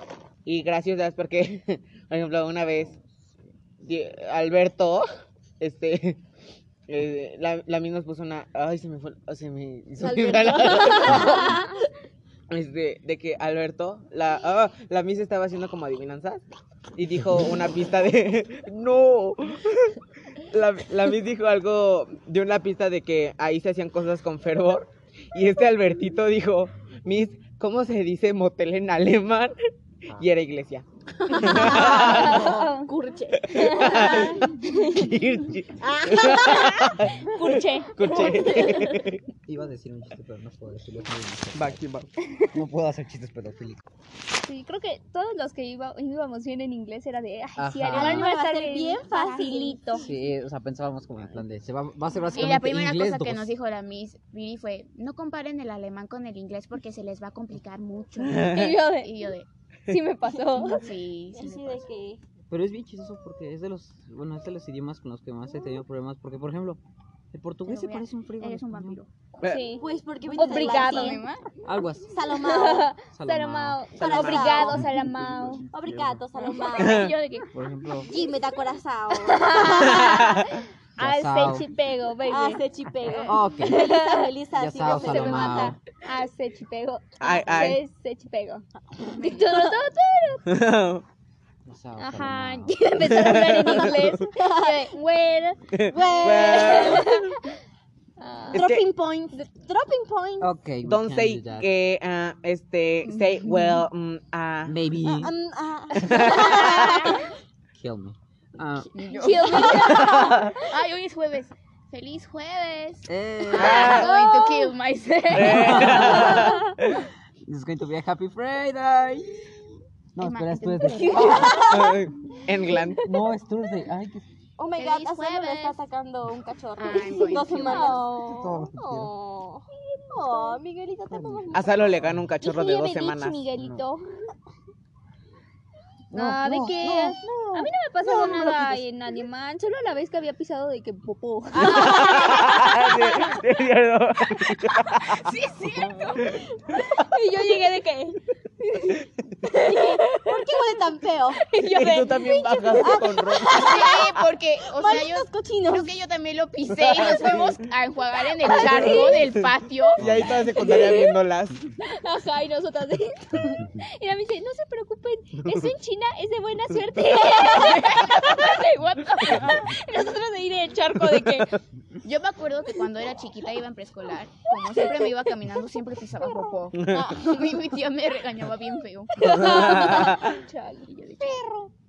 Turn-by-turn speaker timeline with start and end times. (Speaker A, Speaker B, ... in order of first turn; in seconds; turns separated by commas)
Speaker A: 0.5-3.0, Speaker A: 3.8-5.1, Speaker A: 5.6-6.2, Speaker A: 6.9-11.6, Speaker B: 10.0-11.7, Speaker C: 11.0-11.5, Speaker A: 12.5-16.4, Speaker A: 17.0-29.6, Speaker A: 30.1-32.6, Speaker B: 31.4-34.7, Speaker C: 31.4-32.9, Speaker A: 33.4-39.2, Speaker C: 33.5-34.5, Speaker B: 35.8-37.0, Speaker C: 37.3-38.7, Speaker B: 38.0-39.1, Speaker D: 39.5-41.8, Speaker A: 41.5-42.1, Speaker D: 42.5-43.8, Speaker C: 44.4-50.0, Speaker D: 47.6-48.3, Speaker B: 47.9-50.0, Speaker D: 50.0-53.5, Speaker E: 52.3-59.5, Speaker A: 58.3-58.8, Speaker C: 58.5-59.1, Speaker C: 59.9-60.9, Speaker B: 60.5-62.2, Speaker E: 60.7-61.9, Speaker D: 62.5-66.8, Speaker D: 67.3-69.0, Speaker E: 67.7-69.1, Speaker C: 69.4-71.3, Speaker A: 69.4-69.7, Speaker B: 69.7-71.3, Speaker E: 70.3-71.4, Speaker D: 71.7-72.2, Speaker B: 72.1-72.9, Speaker C: 72.3-75.7, Speaker D: 73.1-73.8, Speaker B: 74.0-74.9, Speaker A: 74.0-74.8, Speaker D: 74.5-75.7, Speaker B: 75.7-77.2, Speaker E: 76.6-77.5, Speaker A: 76.8-77.1, Speaker D: 77.5-78.2, Speaker B: 78.1-80.2, Speaker C: 79.1-84.3, Speaker A: 79.9-80.6, Speaker D: 81.0-81.7, Speaker B: 82.3-85.8, Speaker D: 83.2-84.0, Speaker D: 84.5-85.8, Speaker C: 84.8-90.5, Speaker A: 87.2-87.8, Speaker E: 89.1-89.5, Speaker B: 89.2-89.7, Speaker A: 90.5-91.0, Speaker D: 91.7-92.9, Speaker C: 92.0-95.6, Speaker A: 93.0-94.2, Speaker B: 94.2-95.0, Speaker A: 95.7-97.3, Speaker B: 95.9-97.2, Speaker C: 96.3-97.5, Speaker C: 98.2-98.6, Speaker B: 98.5-100.5, Speaker A: 98.5-98.9, Speaker D: 100.4-101.7, Speaker A: 100.8-104.8, Speaker D: 104.7-105.3, Speaker B: 105.0-107.2, Speaker A: 106.0-107.1, Speaker D: 106.0-106.4, Speaker C: 106.1-107.0, Speaker E: 106.6-107.2, Speaker D: 107.7-108.9, Speaker E: 108.9-116.5, Speaker C: 109.0-110.7, Speaker B: 109.6-110.0, Speaker A: 109.7-110.5, Speaker D: 113.1-114.1, Speaker A: 113.6-114.1, Speaker B: 113.8-114.7, Speaker C: 113.9-114.6, Speaker A: 115.3-117.0, Speaker D: 115.3-119.6, Speaker D: 120.2-121.7, Speaker E: 120.2-121.8, Speaker C: 120.8-122.0, Speaker B: 121.2-122.0, Speaker A: 121.6-123.0, Speaker D: 123.0-124.3, Speaker B: 124.6-132.0, Speaker E: 124.8-125.8, Speaker E: 126.8-128.1, Speaker C: 127.2-128.1, Speaker D: 128.2-129.1, Speaker C: 129.7-130.6, Speaker D: 131.1-131.5, Speaker A: 131.5-133.8, Speaker C: 132.4-134.0, Speaker D: 136.1-137.2, Speaker C: 136.1-143.4, Speaker B: 136.9-138.8, Speaker B: 141.6-142.9, Speaker A: 141.7-145.3, Speaker C: 145.1-150.8, Speaker E: 145.2-146.3, Speaker B: 149.6-151.4, Speaker C: 151.3-153.6, Speaker A: 151.6-153.7, Speaker B: 152.8-156.0, Speaker E: 153.5-160.3, Speaker A: 156.8-157.6, Speaker B: 158.5-159.2, Speaker A: 158.6-159.1, Speaker C: 158.6-159.2, Speaker A: 160.0-161.7, Speaker D: 160.0-160.5, Speaker C: 160.6-161.1, Speaker C: 161.8-171.6, Speaker E: 167.5-169.7, Speaker A: 171.2-171.5, Speaker E: 172.0-180.2, Speaker B: 176.2-177.7, Speaker A: 176.8-177.1, Speaker C: 179.2-180.9, Speaker A: 179.2-180.3, Speaker B: 179.3-180.1, Speaker E: 180.9-181.5, Speaker B: 181.2-181.7